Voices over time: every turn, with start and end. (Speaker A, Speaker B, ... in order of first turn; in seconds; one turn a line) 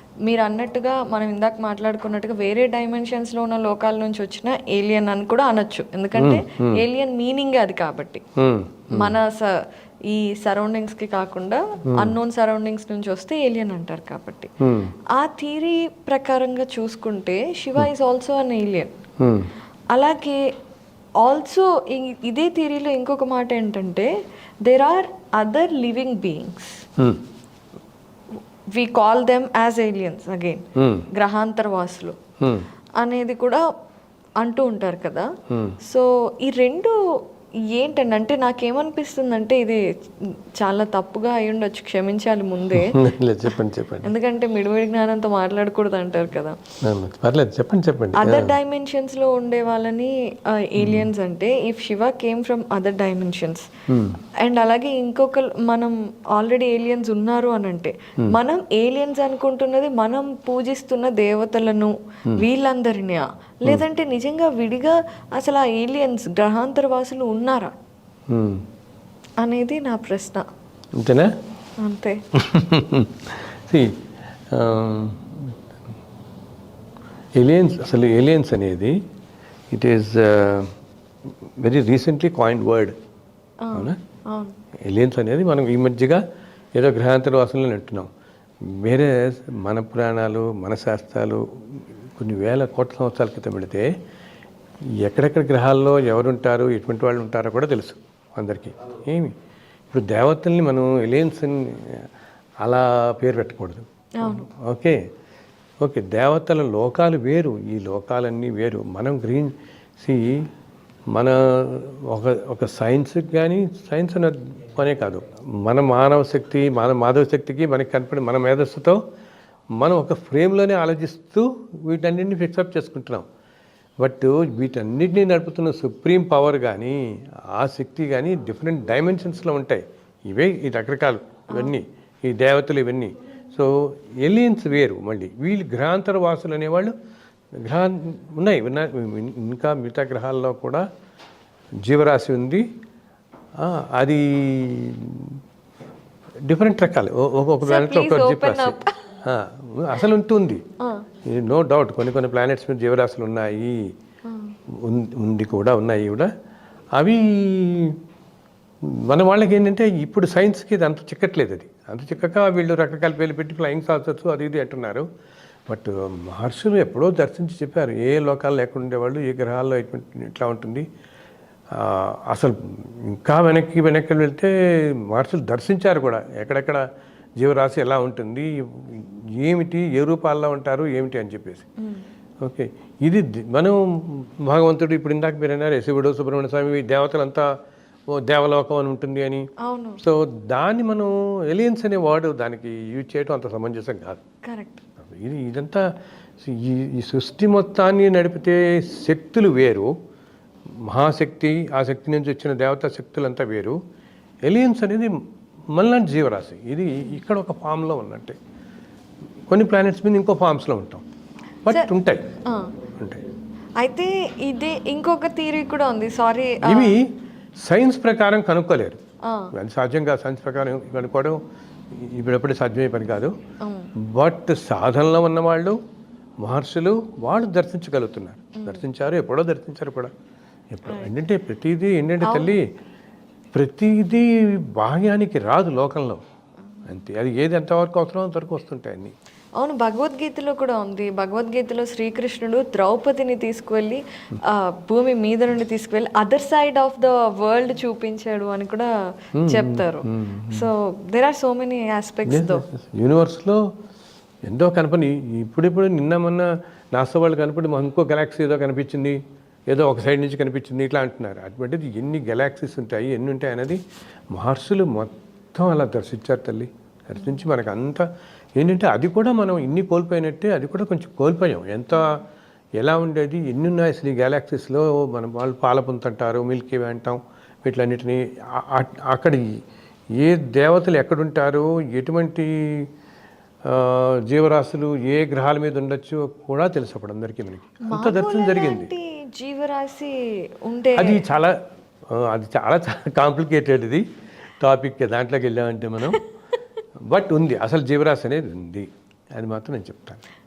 Speaker A: 0.2-8.2
Speaker B: 6.2-6.8
Speaker B: 8.4-9.2
Speaker A: 8.9-14.5
Speaker B: 14.6-14.9
Speaker A: 15.1-18.9
Speaker B: 19.2-19.5
Speaker A: 19.9-20.4
Speaker A: 21.2-24.1
Speaker A: 24.6-26.9
Speaker A: 28.7-32.1
Speaker B: 30.8-31.1
Speaker A: 33.0-33.6
Speaker A: 34.4-35.3
Speaker B: 35.5-35.8
Speaker A: 35.8-37.0
Speaker A: 37.7-39.8
Speaker A: 40.6-42.9
Speaker B: 42.7-44.1
Speaker A: 44.0-46.6
Speaker B: 46.8-48.5
Speaker A: 48.1-53.7
Speaker B: 50.8-51.1
Speaker B: 53.9-54.2
Speaker A: 54.4-67.7
Speaker B: 68.3-68.6
Speaker A: 69.4-70.5
Speaker B: 71.0-71.3
Speaker A: 71.8-72.2
Speaker B: 72.3-74.0
Speaker B: 74.5-75.5
Speaker B: 77.4-79.0
Speaker B: 79.7-80.7
Speaker B: 81.6-82.9
Speaker A: 83.6-84.5
Speaker B: 84.9-86.2
Speaker B: 86.7-88.1
Speaker B: 88.7-93.9
Speaker B: 95.0-99.3
Speaker B: 99.9-102.1
Speaker B: 102.6-105.0
Speaker A: 104.2-104.4
Speaker B: 105.8-110.4
Speaker B: 111.1-119.0
Speaker B: 119.8-123.2
Speaker B: 124.0-127.0
Speaker B: 127.5-136.9
Speaker A: 131.5-131.8
Speaker B: 137.6-140.8
Speaker B: 141.8-142.7
Speaker B: 143.6-145.4
Speaker B: 146.4-150.6
Speaker A: 147.6-149.1
Speaker A: 150.8-151.1
Speaker B: 151.2-153.9
Speaker A: 154.3-154.5
Speaker B: 154.8-156.3
Speaker B: 156.9-158.0
Speaker B: 158.8-165.1
Speaker B: 165.7-170.8
Speaker B: 171.7-176.8
Speaker B: 177.4-181.7
Speaker B: 182.4-187.5
Speaker B: 188.1-189.5
Speaker A: 189.6-190.0
Speaker B: 190.0-194.2
Speaker A: 194.4-194.8
Speaker B: 195.0-195.9
Speaker B: 196.4-199.9
Speaker B: 200.8-203.8
Speaker B: 204.4-205.1
Speaker B: 205.7-208.4
Speaker B: 209.5-211.0
Speaker B: 211.6-212.3
Speaker A: 212.4-212.7
Speaker B: 212.9-213.2
Speaker A: 213.8-216.9
Speaker B: 216.6-217.1
Speaker B: 217.6-219.0
Speaker A: 219.2-219.5
Speaker B: 219.5-221.4
Speaker B: 221.9-223.3
Speaker A: 223.6-223.9
Speaker B: 224.1-225.8
Speaker B: 226.4-230.1
Speaker A: 228.5-228.8
Speaker B: 230.7-232.6
Speaker A: 232.2-232.6
Speaker B: 233.5-236.2
Speaker B: 236.8-239.1
Speaker A: 239.6-252.6
Speaker B: 249.4-250.7
Speaker B: 252.3-253.6
Speaker B: 254.4-263.8
Speaker B: 264.3-272.2
Speaker B: 272.8-279.5
Speaker B: 280.2-282.9
Speaker B: 283.6-288.9
Speaker A: 287.9-291.2
Speaker B: 290.9-291.6
Speaker B: 292.1-294.0
Speaker B: 294.6-296.2
Speaker B: 297.1-300.2